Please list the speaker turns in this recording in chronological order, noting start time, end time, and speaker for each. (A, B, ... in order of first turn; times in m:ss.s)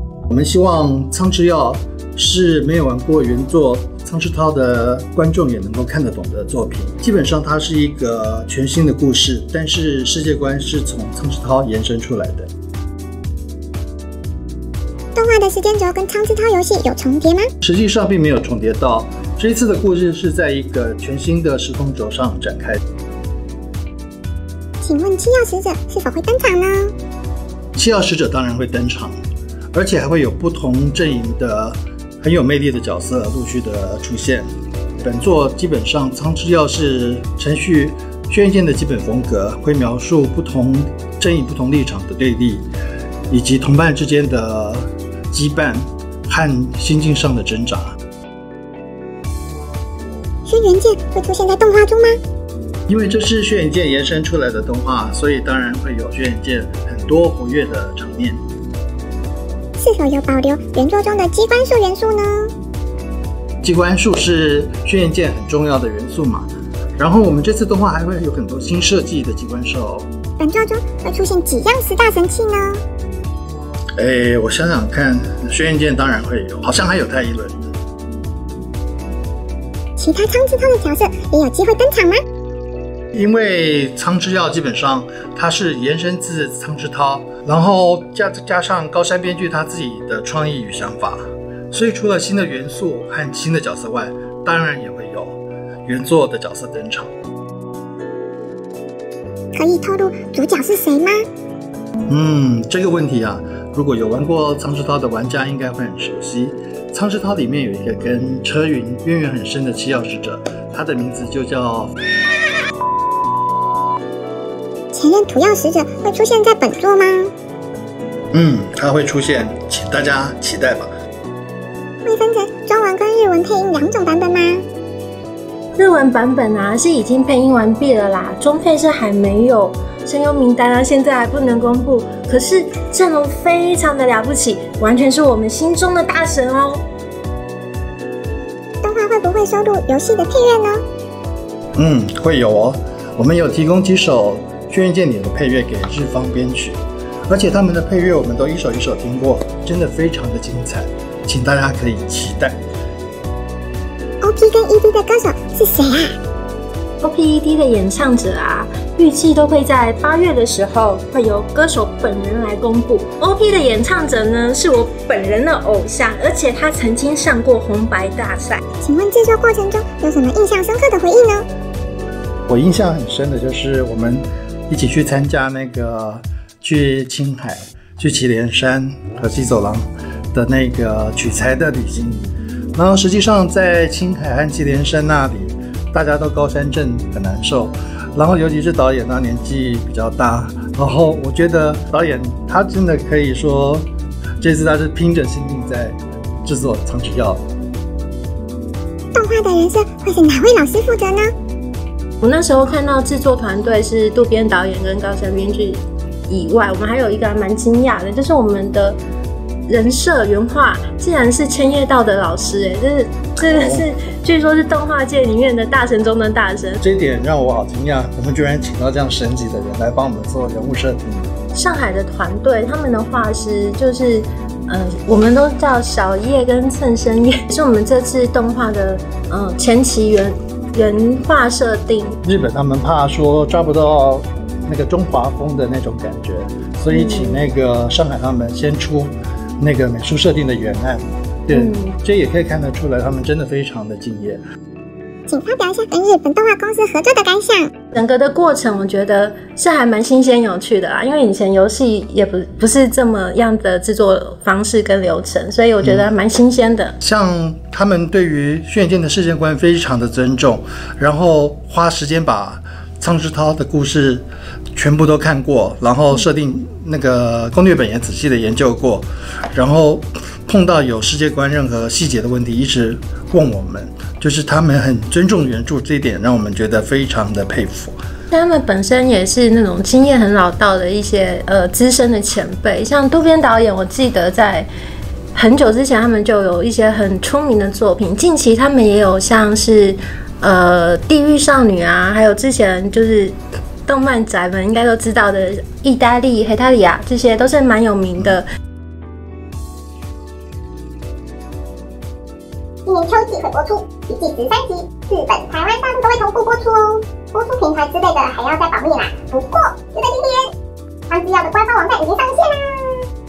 0:00.3-0:12.5 A
0:15.1-0:17.5 B
0:17.6-0:22.8 A
0:24.8-0:26.9 B
0:27.7-0:29.2 A
0:29.7-0:42.6 A
0:43.3-0:48.0 A
0:50.4-0:52.2 B
0:52.9-0:58.4 A
0:59.8-1:02.5 B
1:03.6-1:10.1 A
1:10.4-1:12.8 B
1:14.0-1:17.7 A
1:20.0-1:22.2 B
1:23.1-1:37.1 A
1:39.5-1:41.2 B
1:42.1-1:51.9 A
1:54.9-1:57.3 B
1:58.3-2:00.9 A
2:02.0-2:04.6 B
2:05.7-2:16.8 C
2:18.8-2:20.8 B
2:21.8-2:32.6 A
2:34.2-2:36.1 B
2:37.0-2:48.6 C
2:48.8-2:51.4 B
2:52.5-3:02.2 A
3:02.7-3:13.9 A
3:14.4-3:17.4 A
3:19.1-3:21.3 B
3:22.2-3:29.0 C
3:29.7-3:36.8 C
3:33.5-3:33.8 A
3:36.8-3:41.0 A
3:41.5-3:52.2 C
3:52.2-4:04.4 A
3:56.9-3:57.4 C
4:01.5-4:01.8 C
4:05.3-4:07.7 B
4:07.9-4:16.9 C
4:17.0-4:38.0 A
4:38.3-4:44.7 C
4:45.3-4:58.4 C
5:02.8-5:10.5 B
5:11.1-5:13.0 B